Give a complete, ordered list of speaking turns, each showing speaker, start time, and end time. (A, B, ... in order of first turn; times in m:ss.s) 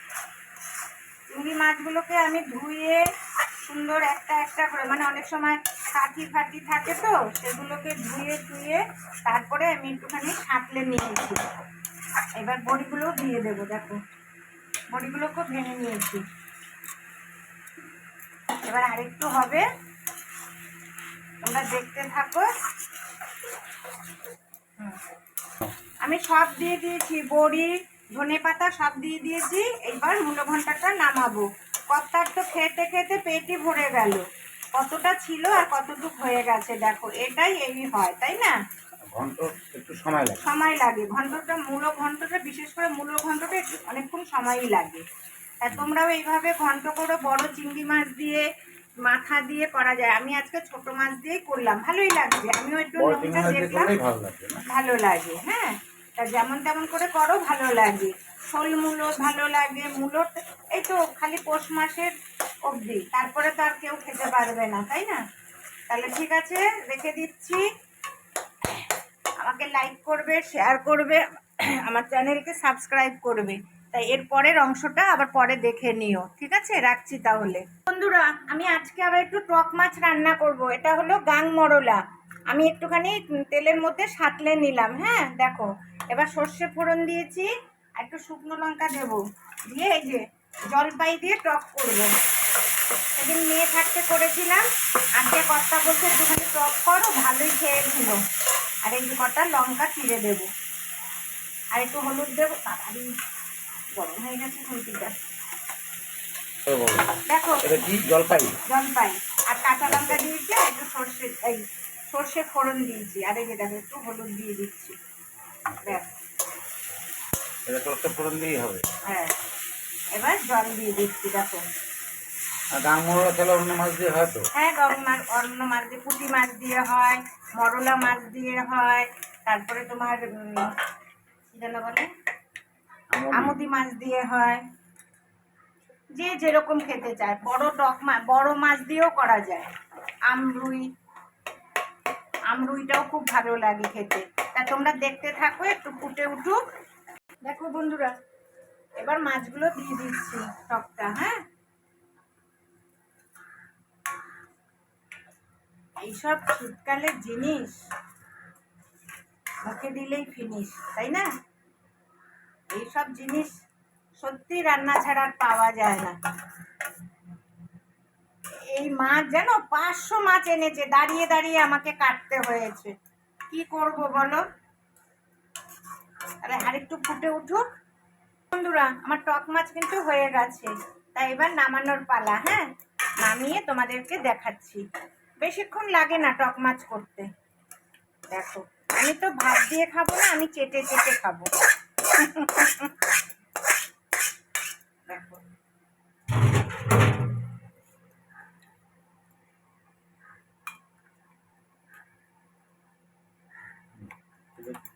0:01.3-0:03.0 A
0:03.6-0:11.5 A
0:12.4-0:14.0 A
0:14.9-0:16.2 A
0:18.6-0:19.7 A
0:21.4-0:22.5 A
0:26.0-0:34.2 A
0:34.8-0:38.6 A
0:39.1-0:40.4 B
0:40.4-0:45.0 A
0:45.6-0:48.4 A
0:49.0-0:53.9 A
0:53.0-0:54.6 B
0:54.7-1:02.1 A
1:02.6-1:05.2 A
1:05.9-1:07.6 A
1:09.4-1:32.1 A
1:33.2-1:38.2 A
1:38.8-1:40.5 A
1:41.7-1:43.1 A
1:44.0-1:45.2 A
1:46.7-1:48.6 B
1:47.3-1:47.7 A
1:48.7-1:55.0 A
1:49.9-1:50.2 B
1:55.8-1:56.1 A
1:57.7-1:58.8 B
1:59.0-1:59.3 A
2:00.1-2:01.6 A
2:02.7-2:04.5 B
2:04.5-2:10.7 A
2:11.5-2:12.1 A
2:13.1-2:13.5 B
2:13.3-2:14.6 A
2:16.1-2:19.7 A
2:20.3-2:20.9 A
2:22.5-2:26.6 A
2:27.4-2:28.2 A
2:29.0-2:31.4 A
2:36.0-2:37.8 A
2:39.6-2:41.3 A
2:42.7-2:43.5 A
2:44.2-2:46.2 A
2:48.7-2:52.9 A
2:53.5-2:54.4 A
2:56.4-2:57.6 A
2:58.5-3:02.7 A
3:03.2-3:04.8 A
3:05.4-3:07.3 A
3:08.3-3:11.5 A
3:12.0-3:12.9 A
3:15.1-3:15.4 A
3:24.0-3:24.8 B